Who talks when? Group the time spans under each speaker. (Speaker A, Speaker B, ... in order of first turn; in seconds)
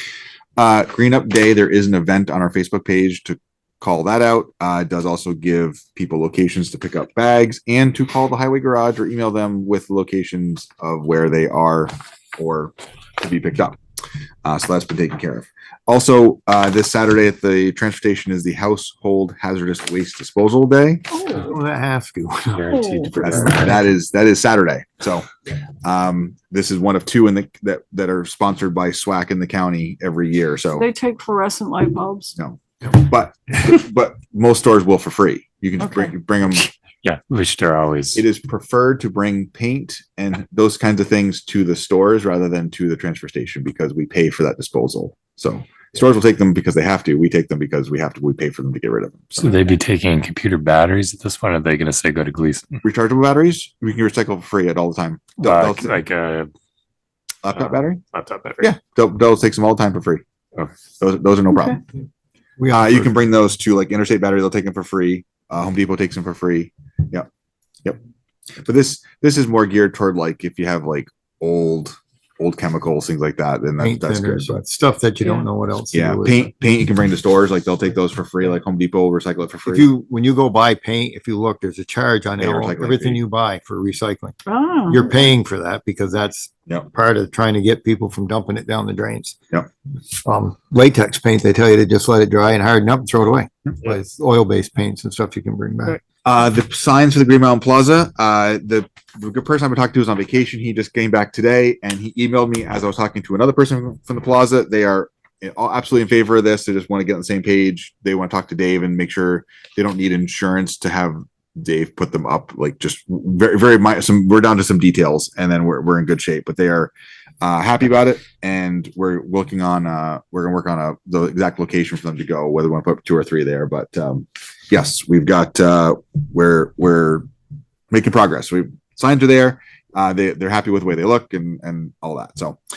Speaker A: 0.6-13.8, 14.4-21.1, 23.2-25.3, 25.8-30.9, 32.4-36.7, 38.1-49.7, 52.8-56.0, 57.4-58.0, 58.6-60.2, 61.0-61.8, 62.7-67.3, 68.6-74.5, 75.9-79.9, 82.4-83.2, 96.2-127.3, 127.9-132.6
Speaker B: 21.1-21.5, 22.7-23.2, 30.7-32.4, 35.8-36.1, 61.5-61.8, 75.2-75.5, 84.5-85.2
Speaker C: 21.3-23.7, 62.6-63.1, 73.8-76.4, 79.7-84.4, 84.9-89.4, 90.2-96.0
Speaker D: 22.5-23.9, 37.0-38.2, 49.4-52.8, 55.4-56.5, 57.5-58.7